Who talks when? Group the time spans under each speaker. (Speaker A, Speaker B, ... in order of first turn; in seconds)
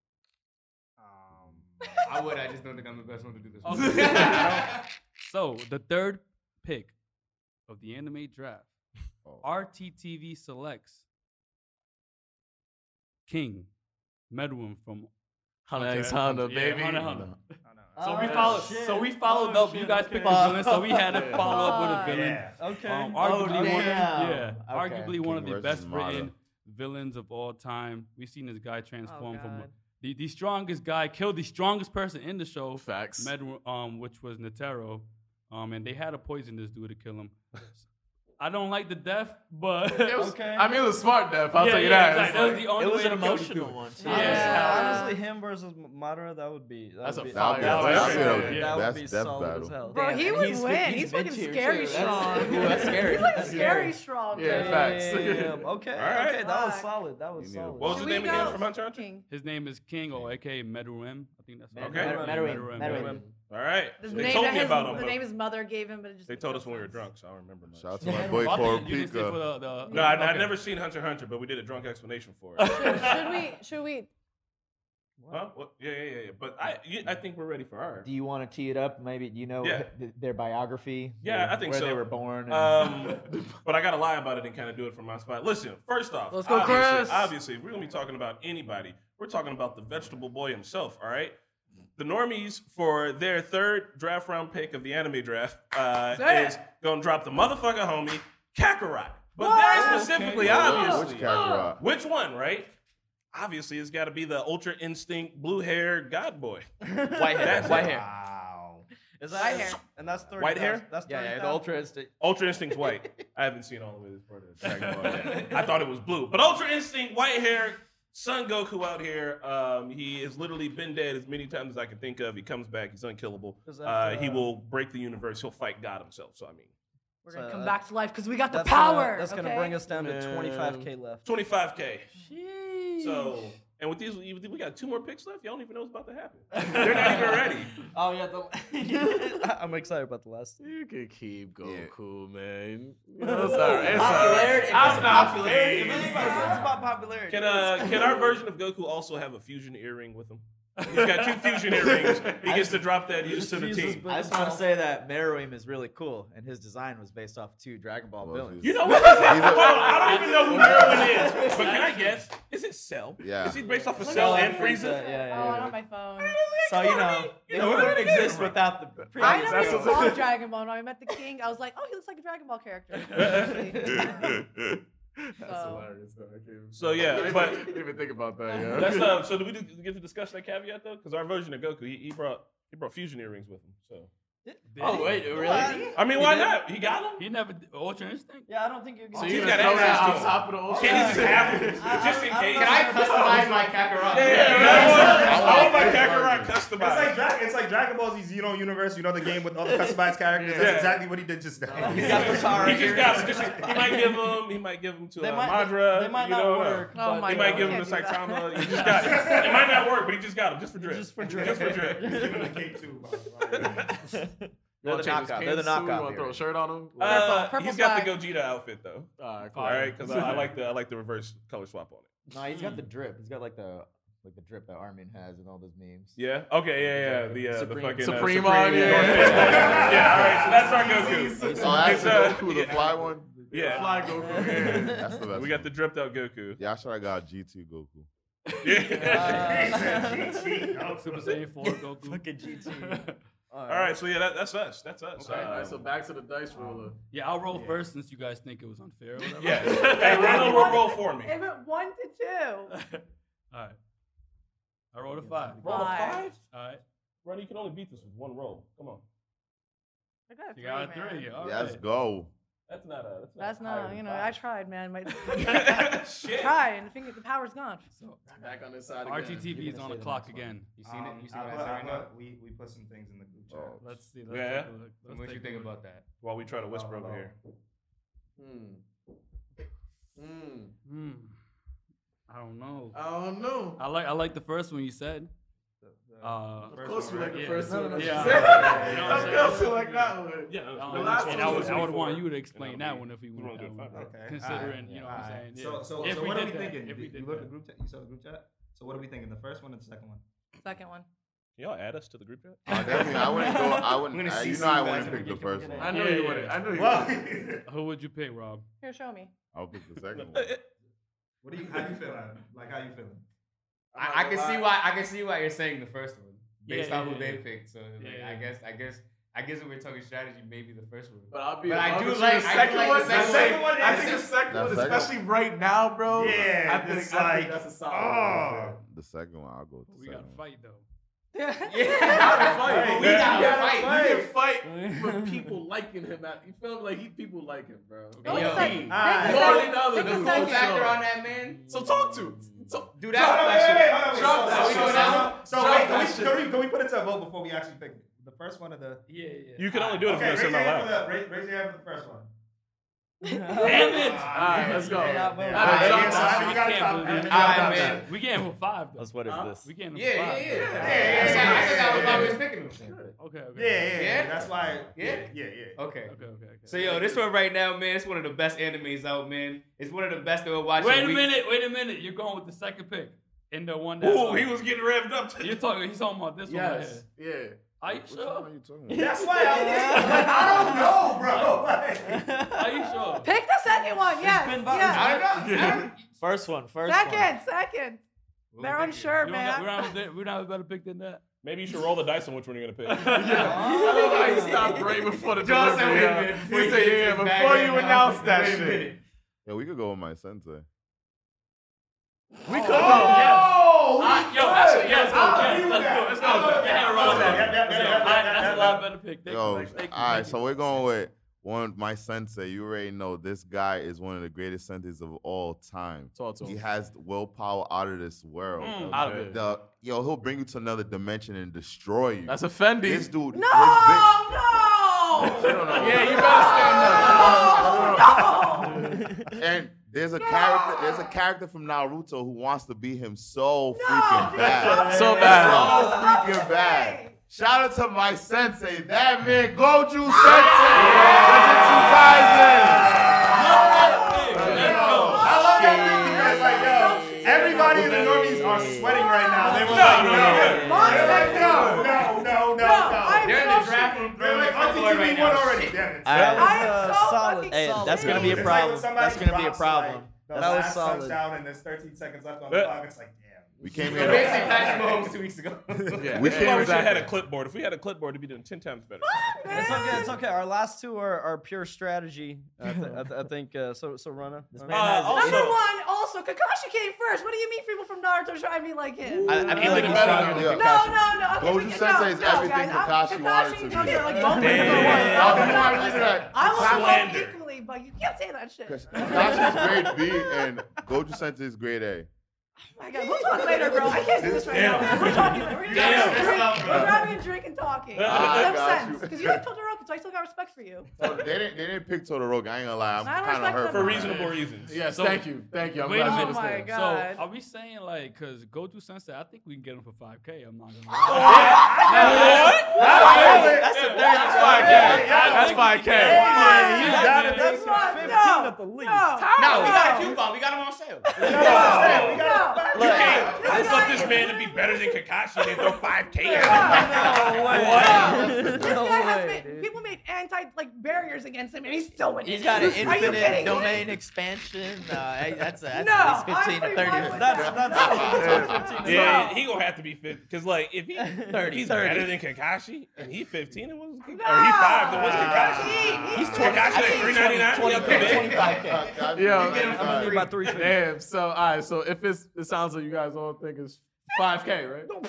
Speaker A: 1.0-2.0, 17.6-18.6, 22.0-22.6, 107.7-108.9, 190.8-192.0, 194.6-196.2, 196.7-203.8, 209.0-209.7, 211.3-214.2, 229.1-231.2, 239.2-241.4, 245.2-245.6, 247.5-247.8, 270.8-273.9, 276.7-277.2, 285.8-289.6, 290.9-292.2, 293.9-300.2, 306.7-307.6, 311.4-313.2, 322.5-324.4, 326.1-328.8, 332.6-334.3, 338.6-339.7, 343.1-349.0, 350.0-352.3, 353.8-358.1, 360.8-362.4, 363.6-365.8, 378.9-382.4, 385.1-385.8, 402.7-408.9, 440.7-456.7, 458.0-465.2, 465.8-466.0, 494.6-495.1, 495.7-496.3, 511.1-518.2, 521.2-524.0, 526.4-527.0, 544.9-546.7
Speaker B: 2.0-4.8, 192.5-195.6, 269.8-272.1, 275.1-276.0, 304.2-305.6, 311.7-312.0, 314.0-324.2, 331.7-334.1, 338.2-341.7, 342.9-345.9, 349.8-350.3, 355.7-356.0, 357.1-358.1, 359.9-363.0, 363.9-371.3, 384.9-385.9, 388.5-389.2, 395.4-399.0, 449.6-451.2, 453.2-455.9, 463.9-466.1, 479.6-480.4, 495.7-497.1, 519.4-521.2, 547.9-548.7, 549.4-550.4
Speaker C: 3.6-7.0, 7.7-8.7, 9.4-11.0, 13.3-13.7, 14.3-15.1, 15.7-37.9, 38.4-40.3, 41.5-45.1, 47.6-48.8, 59.3-63.2, 68.3-70.6, 72.8-73.2, 114.8-115.4, 150.8-151.6, 160.0-162.3, 184.7-185.4, 187.2-188.5, 208.7-209.2, 219.5-220.5, 222.5-222.8, 238.6-239.6, 240.9-243.2, 247.1-250.8, 252.7-253.8, 254.9-255.9, 256.5-256.8, 260.6-261.8, 267.9-268.2, 269.0-270.7, 273.8-275.7, 280.9-281.4, 282.3-283.0, 283.8-285.3, 286.2-290.2, 290.7-297.5, 305.9-306.6, 307.6-308.6, 316.7-317.5, 318.0-318.5, 329.9-330.8, 338.1-338.7, 341.5-342.6, 349.1-349.7, 353.6-354.7, 355.6-362.4, 363.2-364.2, 366.1-367.2, 370.8-374.5, 375.4-377.1, 377.8-378.5, 381.3-381.7, 382.5-383.3, 389.2-391.2, 392.9-393.7, 402.5-410.9, 418.6-419.2, 440.3-441.8, 443.2-445.4, 504.1-504.4, 504.9-517.5
Speaker D: 3.7-4.5, 15.7-17.2, 21.1-21.5, 32.8-33.3, 39.9-42.7, 47.0-48.7, 53.4-55.7, 62.8-63.3, 129.9-130.9, 140.6-146.7, 151.7-152.4, 160.2-161.2, 169.2-170.2, 175.5-179.2, 189.1-192.1, 193.0-196.1, 200.3-201.0, 201.6-202.9, 214.8-217.5, 219.2-220.5, 228.0-232.7, 233.5-235.0, 238.9-239.4, 245.3-247.0, 268.3-269.7, 278.4-278.8, 280.2-280.7, 282.9-283.8, 286.7-291.9, 305.8-307.3, 313.9-314.8, 321.3-328.7, 332.1-338.6, 339.2-341.0, 341.7-346.4, 354.3-356.8, 360.4-363.1, 376.5-377.6, 385.4-385.9, 393.1-399.0, 402.4-408.7, 416.1-416.7, 418.9-419.4, 422.3-423.2, 425.4-429.0, 434.8-436.1, 440.7-442.9, 444.3-445.2, 463.6-464.8, 465.9-467.1, 479.1-480.6, 501.0-501.3, 504.6-506.7, 512.8-516.5, 519.2-519.7, 538.0-539.2, 549.1-554.9
Speaker E: 18.0-20.8, 22.6-24.2, 40.2-40.8, 44.1-50.1, 51.9-58.4, 62.0-62.6, 75.2-75.5, 106.8-108.0, 109.2-111.8, 123.7-124.5, 127.3-127.8, 128.5-131.2, 132.2-133.2, 136.5-140.6, 143.2-148.2, 153.2-154.7, 164.3-165.7, 184.4-186.5, 188.5-193.6, 205.2-207.9, 210.8-212.6, 233.3-234.9, 239.1-240.5, 241.6-243.9, 287.7-288.9, 302.7-306.0, 334.7-335.1, 353.4-354.0, 354.6-356.2, 379.5-380.1, 384.6-385.8, 393.3-394.8, 456.1-458.6, 460.3-461.2, 469.5-474.9, 516.0-519.8, 526.6-529.7, 537.0-539.1, 549.5-550.8
Speaker F: 18.3-19.0, 20.1-21.2, 23.2-25.3, 42.7-44.5, 49.9-53.9, 61.7-63.2, 68.0-68.6, 78.0-83.1, 107.1-108.1, 111.1-112.1, 143.4-146.7, 152.4-152.9, 154.1-161.7, 164.1-165.7, 166.6-170.1, 184.8-186.5, 199.7-200.0, 201.8-203.9, 213.6-216.4, 222.3-226.2, 226.8-230.0, 231.4-232.2, 359.0-359.7, 378.9-381.0, 382.1-382.8, 384.2-387.3, 393.5-394.9, 440.9-441.2, 445.3-449.5, 450.0-451.8, 456.1-460.9, 472.6-473.0, 474.5-475.6, 479.3-481.5, 484.2-485.1, 511.9-515.4, 522.7-523.8, 527.9-528.2, 532.2-537.6, 541.2-542.2, 546.1-549.0
Speaker G: 21.4-22.3, 29.1-29.7, 44.0-45.2, 49.8-55.3, 56.1-56.9, 57.8-59.3, 64.0-67.1, 69.8-70.2, 72.6-74.1, 86.3-87.3, 96.1-96.6, 99.4-101.7, 109.4-109.8, 127.2-129.8, 164.0-168.6, 169.2-174.4, 175.4-175.9, 206.9-209.3, 217.0-218.2, 249.8-252.7, 255.6-256.3, 260.3-261.3, 263.4-267.9, 300.6-301.1, 308.8-309.3, 331.3-332.7, 338.2-340.8, 353.2-354.2, 383.2-385.2, 386.9-388.0, 388.6-389.9, 423.2-429.3, 430.1-431.2, 433.7-437.2, 440.9-442.3, 443.2-448.0, 448.8-454.2, 456.3-458.5, 469.0-470.2, 475.1-490.5, 492.8-500.9, 503.0-504.2, 506.1-507.2, 511.1-512.7, 514.6-514.9, 516.1-520.2, 521.1-533.9, 535.7-539.5, 544.1-547.8
Speaker H: 25.2-26.3, 47.3-49.8, 57.4-57.8, 67.7-69.4, 100.4-101.8, 141.6-141.9, 158.2-160.2, 163.2-163.6, 194.6-196.5, 231.4-233.4, 234.8-235.7, 236.6-238.1, 261.4-262.3, 273.5-273.8, 302.7-305.9, 309.5-310.6, 324.5-325.2, 326.2-326.5, 328.7-330.4, 364.4-364.9, 377.8-379.2, 399.4-400.6, 409.2-424.4, 426.6-428.6, 429.4-443.2, 444.9-445.3, 463.6-464.6, 466.1-466.9, 480.2-487.3, 488.6-492.1, 496.7-497.0, 498.0-499.4, 501.0-504.3, 537.7-538.9, 547.7-550.3
Speaker I: 47.9-48.3, 55.9-56.4, 57.8-59.1, 61.8-65.3, 66.3-68.3, 69.9-73.3, 75.3-78.1, 79.6-79.9, 81.2-91.3, 92.0-102.7, 103.3-106.7, 107.4-108.0, 110.4-110.9, 112.2-126.7, 131.2-132.1, 133.0-137.7, 147.3-154.1, 158.6-165.2, 167.6-167.8, 173.1-173.9, 176.7-177.8, 178.7-184.1, 185.9-187.2, 189.1-193.3, 194.1-197.2, 200.6-201.0, 202.0-212.3, 213.6-213.8, 217.0-219.1, 219.6-222.1, 226.2-232.9, 233.5-234.1, 235.3-236.6, 238.6-239.7, 243.7-245.9, 249.4-251.4, 255.6-256.4, 257.2-259.0, 262.7-264.3, 265.2-266.6, 274.3-274.7, 276.2-277.3, 290.5-294.1, 301.6-302.7, 310.1-310.6, 333.0-333.5, 349.6-351.1, 374.0-375.6, 391.4-393.2, 449.7-450.9, 462.5-462.8, 466.1-469.7, 474.7-475.6, 484.3-487.4, 494.2-496.4, 497.9-499.0, 503.7-504.8, 511.2-512.8, 521.2-528.4, 538.8-548.6